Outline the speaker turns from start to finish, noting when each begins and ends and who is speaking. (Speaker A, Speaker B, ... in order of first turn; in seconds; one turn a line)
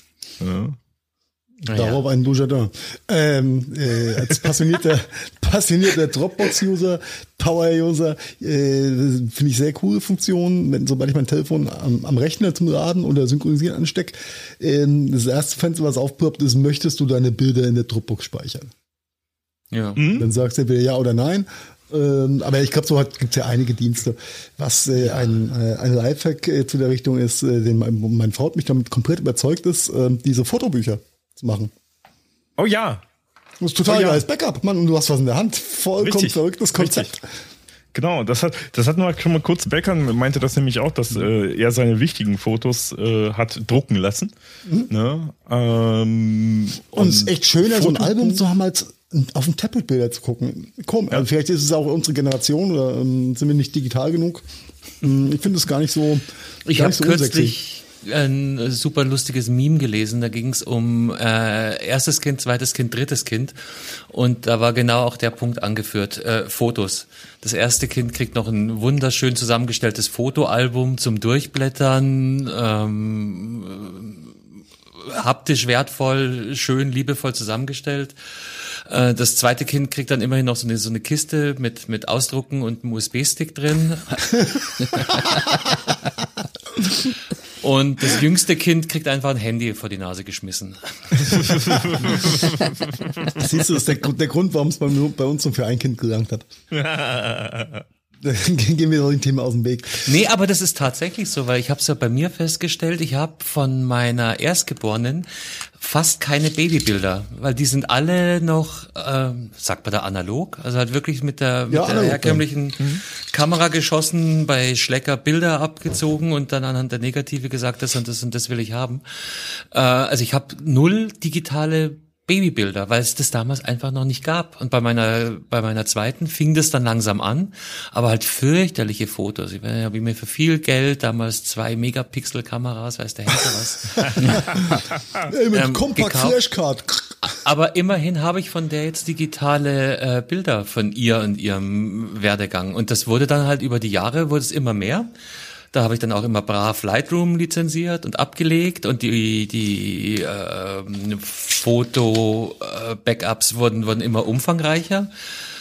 Speaker A: 0.4-0.8
Speaker B: 1.6-18.7
Speaker C: 1.7-2.0
Speaker C: 19.7-20.0
Speaker A: 20.0-20.3
Speaker B: 20.1-31.7
Speaker A: 32.6-33.0
Speaker B: 33.6-37.2
Speaker A: 33.9-34.2
Speaker A: 36.0-37.1
Speaker A: 37.9-44.3
Speaker B: 44.6-44.9
Speaker A: 44.9-48.4
Speaker B: 47.0-54.4
Speaker B: 55.0-57.6
Speaker C: 56.7-74.3
Speaker C: 75.0-84.4
Speaker C: 84.9-85.2
Speaker C: 87.6-92.2
Speaker A: 91.1-93.5
Speaker B: 93.4-96.5
Speaker A: 96.7-97.8
Speaker B: 98.2-100.1
Speaker C: 100.0-134.6
Speaker B: 111.7-112.4
Speaker A: 134.0-134.8
Speaker B: 134.2-137.3
Speaker C: 135.5-136.4
Speaker C: 137.2-145.1
Speaker C: 145.7-155.1